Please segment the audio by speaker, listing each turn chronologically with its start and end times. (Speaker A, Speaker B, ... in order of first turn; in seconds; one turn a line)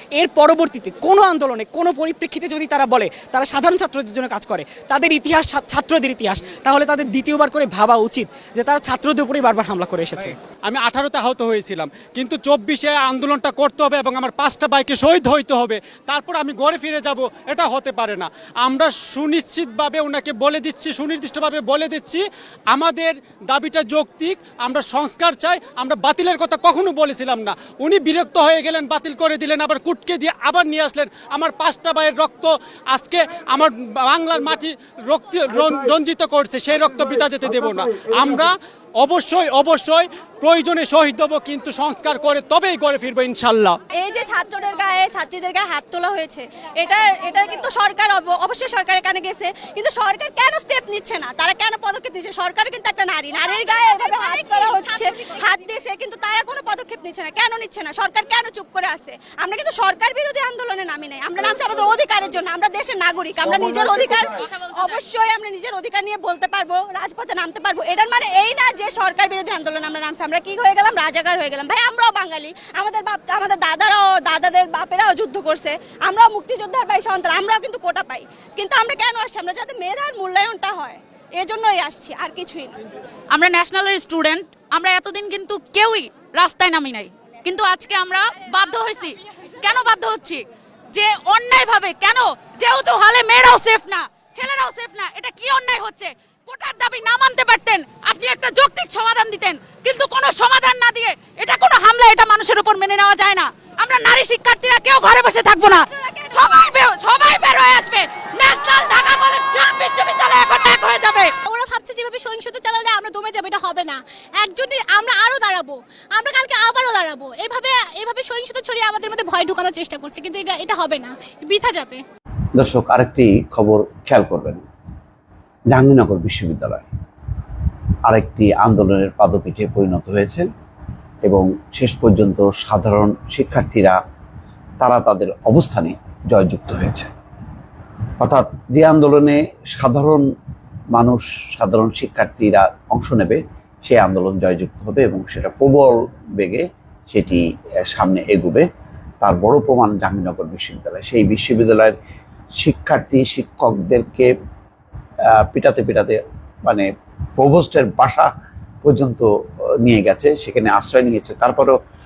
Speaker A: 0.7-1.1
Speaker A: 4.0-4.3
Speaker A: 5.4-6.5
Speaker A: 7.8-8.5
Speaker A: 9.9-10.3
Speaker B: 10.2-43.8
Speaker C: 44.0-82.7
Speaker D: 83.3-111.3
Speaker C: 105.7-106.6
Speaker E: 111.5-122.0
Speaker F: 122.6-124.6
Speaker F: 125.7-126.8
Speaker F: 128.1-130.4
Speaker F: 131.2-133.9
Speaker F: 134.8-137.1
Speaker F: 138.2-140.2
Speaker F: 140.9-148.7
Speaker F: 149.2-151.9
Speaker F: 152.6-154.3
Speaker F: 155.3-156.8
Speaker F: 157.4-158.3
Speaker F: 158.8-159.3
Speaker F: 159.8-161.8